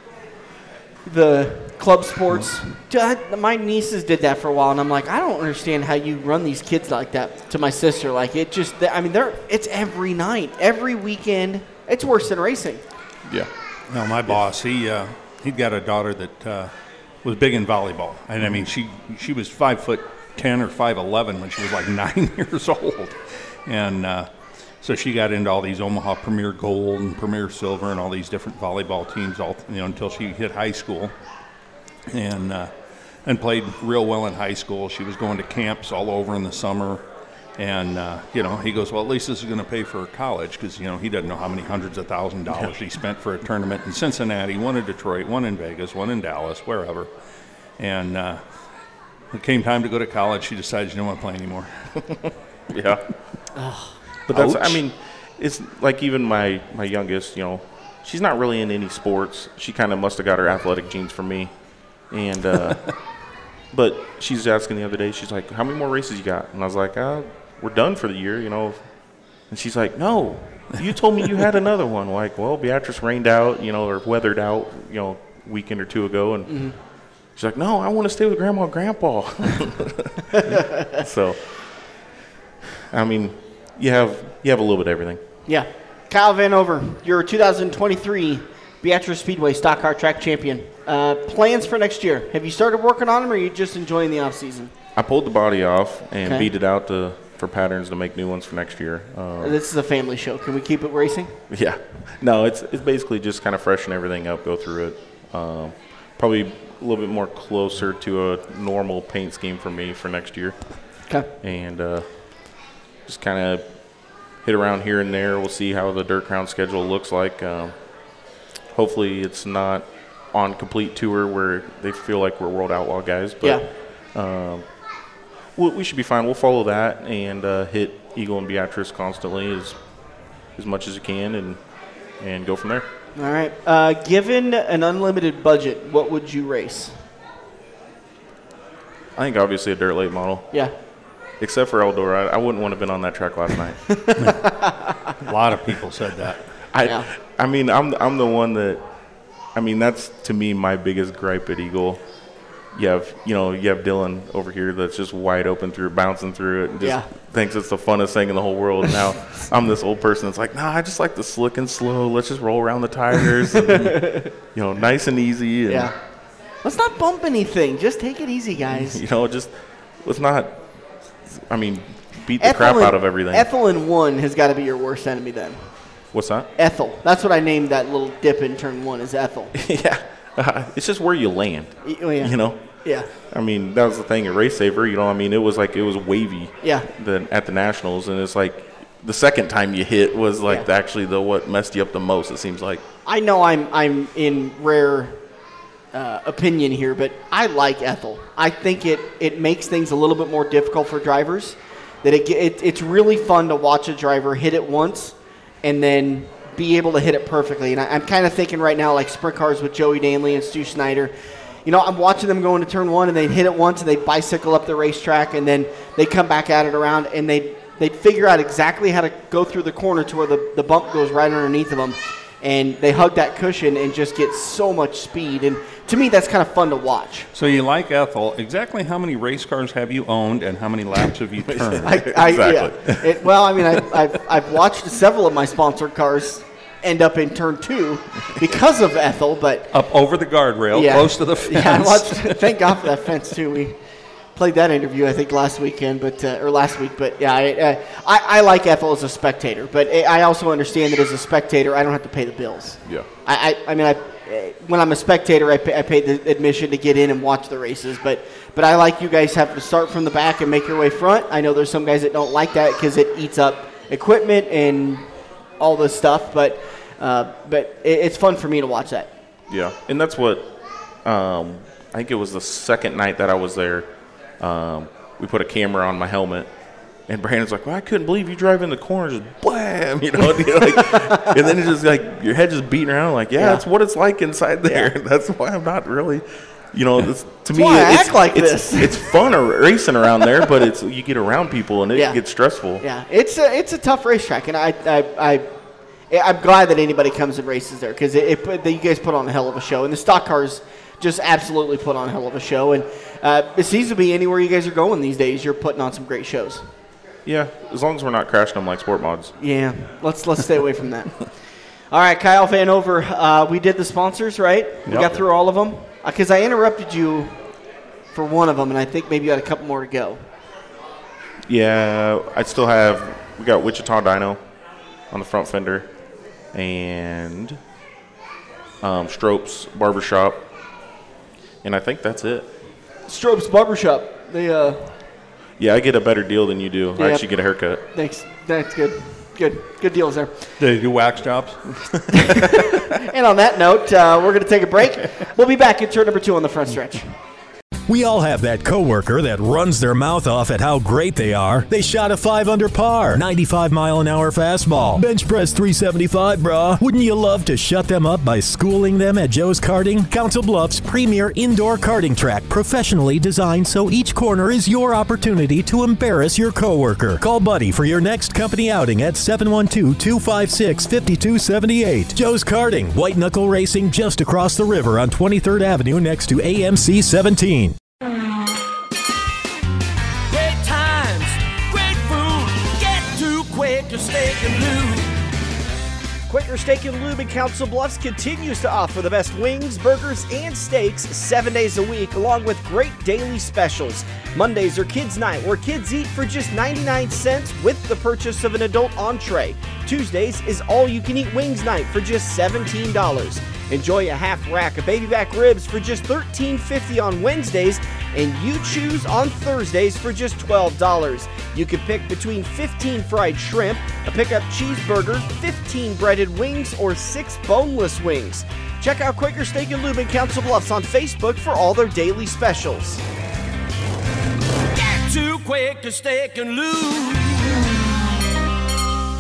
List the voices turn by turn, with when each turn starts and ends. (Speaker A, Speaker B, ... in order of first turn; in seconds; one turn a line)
Speaker A: 1.1-12.8
Speaker B: 13.2-13.5
Speaker C: 13.9-16.7
Speaker C: 17.2-24.3
Speaker C: 24.8-31.1
Speaker C: 32.1-32.7
Speaker C: 33.2-37.0
Speaker C: 37.6-47.1
Speaker C: 47.8-48.4
Speaker C: 49.3-52.0
Speaker B: 52.7-53.2
Speaker A: 53.5-54.0
Speaker B: 54.3-63.1
Speaker C: 54.3-54.8
Speaker B: 63.7-68.9
Speaker B: 69.5-82.0
Speaker A: 76.5-76.8
Speaker A: 80.5-81.0
Speaker B: 82.9-85.2
Speaker A: 85.5-94.7
Speaker B: 95.0-99.6
Speaker A: 96.2-96.5
Speaker A: 99.4-101.4
Speaker B: 101.5-117.9
Speaker B: 118.7-124.7
Speaker B: 125.6-129.9
Speaker B: 130.5-131.6
Speaker B: 132.1-132.9
Speaker A: 133.2-137.0
Speaker B: 139.2-140.7
Speaker B: 141.4-144.0
Speaker A: 144.0-144.9
Speaker C: 144.2-144.5
Speaker C: 145.2-146.6
Speaker B: 146.7-148.8
Speaker A: 146.8-147.1
Speaker B: 149.5-152.0
Speaker B: 152.7-165.9
Speaker A: 156.8-157.1
Speaker A: 163.6-164.3
Speaker A: 165.7-166.0
Speaker A: 166.6-169.0
Speaker B: 168.7-173.5
Speaker A: 172.4-175.7
Speaker B: 176.1-176.5
Speaker A: 176.6-179.6
Speaker B: 179.5-192.8
Speaker A: 181.8-183.1
Speaker A: 186.6-186.9
Speaker A: 193.1-195.2
Speaker A: 195.9-227.3
Speaker C: 227.3-232.1
Speaker B: 231.5-233.1
Speaker A: 231.8-239.7
Speaker C: 239.7-242.8
Speaker A: 240.7-243.8
Speaker A: 244.3-269.1
Speaker B: 269.5-276.5
Speaker B: 277.1-292.9
Speaker A: 280.4-281.4
Speaker A: 283.4-283.6
Speaker A: 284.7-284.9
Speaker A: 287.5-289.1
Speaker A: 291.9-292.2
Speaker A: 292.8-295.5
Speaker A: 296.1-306.7
Speaker B: 307.2-309.3
Speaker A: 309.4-311.4
Speaker A: 311.9-317.4
Speaker C: 314.9-315.1
Speaker A: 318.1-320.3
Speaker B: 321.4-324.4
Speaker B: 325.1-325.9
Speaker B: 326.5-327.6
Speaker B: 328.8-330.5
Speaker B: 331.6-332.5
Speaker A: 333.1-335.0
Speaker B: 335.6-337.8
Speaker A: 337.0-337.3
Speaker A: 337.9-340.5
Speaker C: 340.6-341.7
Speaker A: 342.1-347.1
Speaker D: 347.9-377.8
Speaker E: 380.3-385.1
Speaker A: 386.3-423.0
Speaker E: 424.7-427.6